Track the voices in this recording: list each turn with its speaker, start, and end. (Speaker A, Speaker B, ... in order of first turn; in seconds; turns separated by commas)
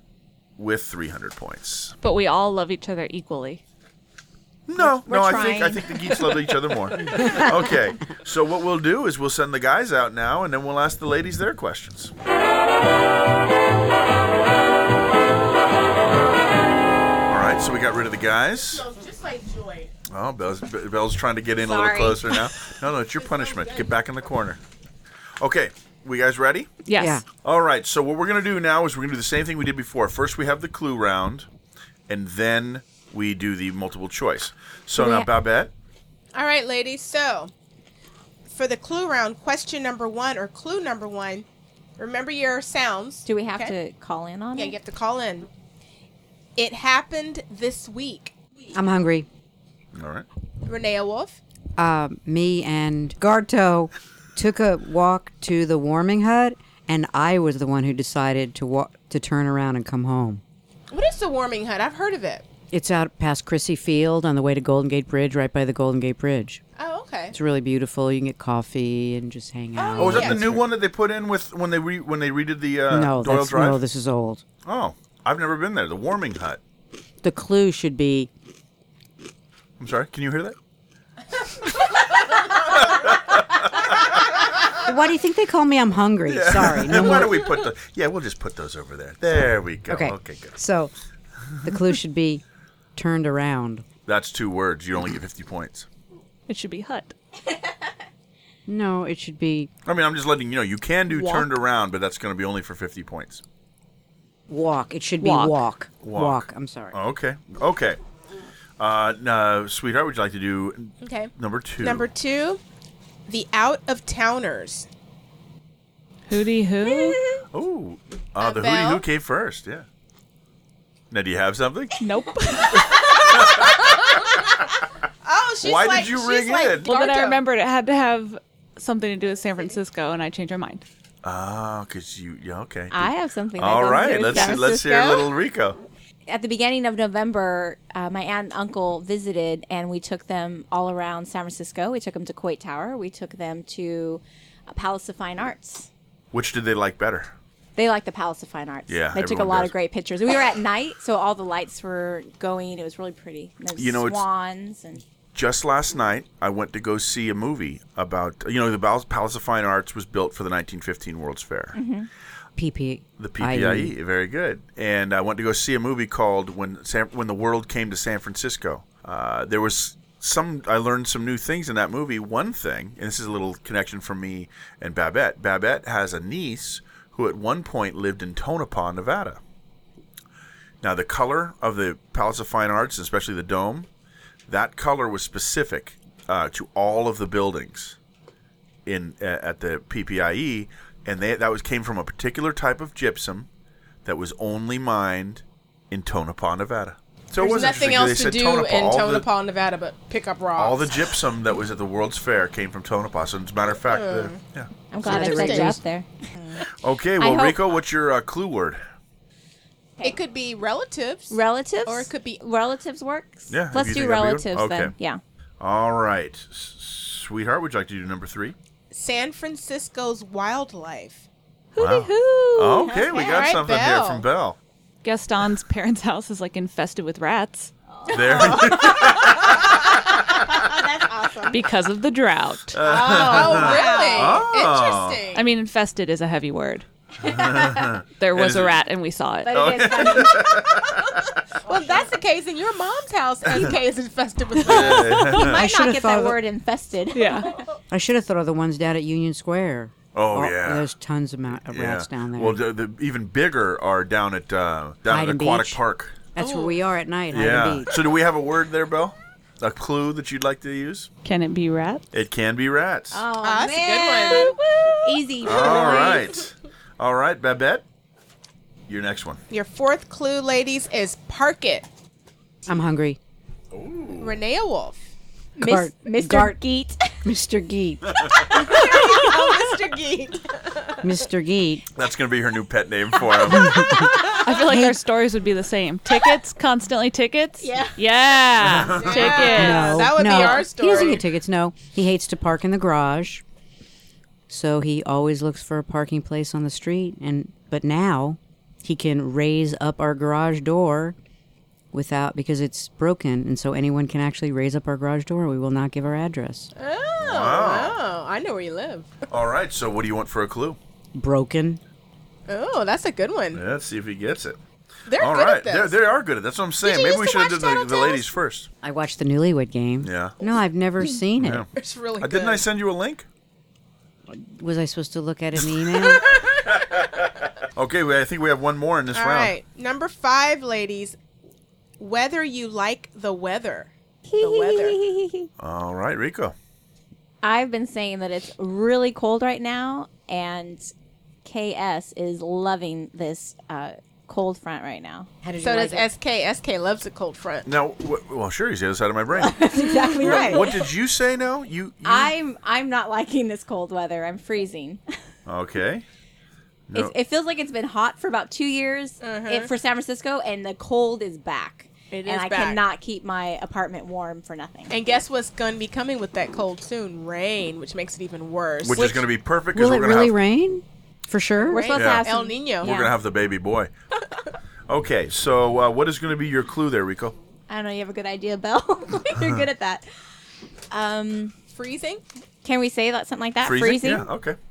Speaker A: 0.6-1.9, Speaker B: 2.0-3.6, Speaker A: 4.7-12.1, Speaker C: 4.8-6.3, Speaker D: 7.2-7.5, Speaker A: 17.3-18.9, Speaker E: 18.6-19.9, Speaker A: 20.1-24.6, Speaker C: 21.6-22.5, Speaker E: 23.2-23.9, Speaker A: 25.4-26.7, Speaker B: 26.9-27.2, Speaker D: 27.0-27.2, Speaker A: 27.4-31.5, Speaker A: 32.1-35.7, Speaker C: 35.0-35.3, Speaker E: 36.3-37.5, Speaker E: 38.5-41.5, Speaker E: 42.0-43.8, Speaker C: 43.2-44.8, Speaker E: 44.5-45.5, Speaker E: 46.6-48.4, Speaker D: 48.7-49.3, Speaker A: 49.9-50.3, Speaker E: 50.7-51.4, Speaker D: 51.8-60.4, Speaker E: 60.9-62.5, Speaker D: 62.7-66.6, Speaker E: 66.8-67.4, Speaker D: 67.3-70.6, Speaker E: 69.8-70.5, Speaker A: 70.0-73.8, Speaker D: 72.9-74.4, Speaker A: 74.6-76.6, Speaker D: 77.2-78.3, Speaker A: 79.8-80.5, Speaker A: 82.7-83.6, Speaker D: 84.8-87.5, Speaker A: 86.3-90.6, Speaker D: 89.9-90.9, Speaker D: 91.6-92.4, Speaker D: 93.0-93.8, Speaker A: 94.0-95.9, Speaker B: 96.5-97.1, Speaker D: 98.7-99.7, Speaker A: 99.8-103.4, Speaker D: 104.5-107.0, Speaker B: 105.2-105.6, Speaker A: 106.0-108.0, Speaker A: 108.8-112.1, Speaker E: 111.0-112.6, Speaker E: 113.3-114.9, Speaker B: 116.3-117.2, Speaker C: 116.8-117.1, Speaker A: 117.5-119.9, Speaker E: 118.4-119.0, Speaker A: 121.1-122.0, Speaker B: 122.0-123.2, Speaker A: 123.1-123.8, Speaker E: 125.2-127.4, Speaker A: 125.6-126.9, Speaker B: 126.8-130.8, Speaker A: 131.2-135.8, Speaker C: 132.9-135.3, Speaker E: 134.4-134.8, Speaker C: 136.3-145.9, Speaker A: 146.3-147.3, Speaker C: 147.8-155.0, Speaker A: 148.9-149.7, Speaker A: 153.7-154.2, Speaker A: 155.3-161.8, Speaker C: 161.7-162.1, Speaker D: 162.6-163.9, Speaker A: 163.2-179.4, Speaker A: 180.8-183.9, Speaker A: 184.5-187.9, Speaker A: 188.9-193.5, Speaker A: 194.1-199.3, Speaker E: 197.4-201.0, Speaker A: 200.6-204.7, Speaker E: 203.9-204.4, Speaker C: 204.9-206.1, Speaker D: 205.0-205.8, Speaker E: 205.0-205.8, Speaker E: 206.3-206.6, Speaker A: 206.8-208.8, Speaker C: 207.2-207.7, Speaker E: 210.0-212.4, Speaker C: 211.3-215.2, Speaker A: 213.5-214.9, Speaker A: 215.6-218.6, Speaker E: 218.9-221.3, Speaker B: 221.7-223.0, Speaker A: 221.8-224.6, Speaker C: 222.8-223.5, Speaker E: 223.1-224.2, Speaker B: 225.0-227.7, Speaker C: 228.1-229.5, Speaker A: 228.1-229.7, Speaker E: 230.5-231.6, Speaker C: 230.5-231.6, Speaker B: 231.5-232.8, Speaker A: 232.7-235.2, Speaker C: 232.8-234.4, Speaker E: 232.8-235.4, Speaker B: 235.3-236.9, Speaker C: 237.2-237.9, Speaker A: 237.2-238.8, Speaker B: 238.2-239.6, Speaker C: 239.4-240.6, Speaker A: 239.5-241.3, Speaker E: 241.6-245.3, Speaker A: 244.6-245.6, Speaker D: 245.4-246.4, Speaker C: 245.4-247.5, Speaker B: 247.1-247.5, Speaker D: 247.9-252.6, Speaker A: 250.1-250.9, Speaker A: 251.6-256.3, Speaker D: 255.1-255.8, Speaker D: 256.4-257.9, Speaker E: 256.4-256.8, Speaker A: 257.3-261.1, Speaker B: 261.2-262.0, Speaker A: 262.1-263.2, Speaker C: 263.1-266.4, Speaker E: 263.4-264.6, Speaker E: 265.1-266.3, Speaker A: 265.4-267.8, Speaker A: 268.9-269.4, Speaker E: 269.5-271.9, Speaker D: 272.7-273.2, Speaker A: 273.7-274.4, Speaker E: 274.2-275.0, Speaker D: 275.6-276.6, Speaker C: 275.6-277.2, Speaker D: 277.2-278.2, Speaker E: 278.5-281.0, Speaker D: 281.0-281.8, Speaker A: 281.9-284.0, Speaker D: 283.5-284.9, Speaker B: 284.3-290.1, Speaker E: 287.6-287.9, Speaker A: 288.6-289.5, Speaker E: 288.8-291.2, Speaker D: 289.5-293.4, Speaker D: 294.5-301.2, Speaker D: 301.9-306.7, Speaker E: 306.7-309.1, Speaker A: 307.2-308.0, Speaker A: 309.3-310.8, Speaker D: 311.1-311.8, Speaker E: 312.5-313.6, Speaker A: 313.5-314.6, Speaker E: 315.1-316.0, Speaker A: 315.2-318.7, Speaker E: 316.8-318.3, Speaker D: 318.8-321.7, Speaker A: 320.0-320.4, Speaker A: 321.4-321.7, Speaker E: 321.8-322.6, Speaker A: 322.2-323.3, Speaker D: 324.3-326.3, Speaker A: 326.7-329.5, Speaker E: 329.1-331.2, Speaker E: 332.0-335.0, Speaker C: 334.3-335.5, Speaker A: 335.6-336.6, Speaker C: 337.4-340.9, Speaker C: 341.4-345.3, Speaker D: 345.4-346.1, Speaker E: 345.6-347.7, Speaker A: 347.7-349.6, Speaker C: 349.4-350.9, Speaker E: 350.0-350.6, Speaker A: 350.3-352.3, Speaker C: 352.0-355.0, Speaker A: 355.4-356.1, Speaker A: 356.9-357.1, Speaker C: 356.9-365.0, Speaker E: 359.2-359.7, Speaker E: 362.1-362.8, Speaker E: 364.9-369.3, Speaker A: 368.8-370.4, Speaker D: 369.7-372.0, Speaker E: 371.6-372.9, Speaker C: 371.6-373.2, Speaker A: 371.9-372.3, Speaker A: 372.8-373.9, Speaker A: 374.9-377.4, Speaker C: 377.7-380.1, Speaker C: 380.9-381.6, Speaker E: 381.7-382.2, Speaker C: 382.6-384.3, Speaker A: 383.6-384.6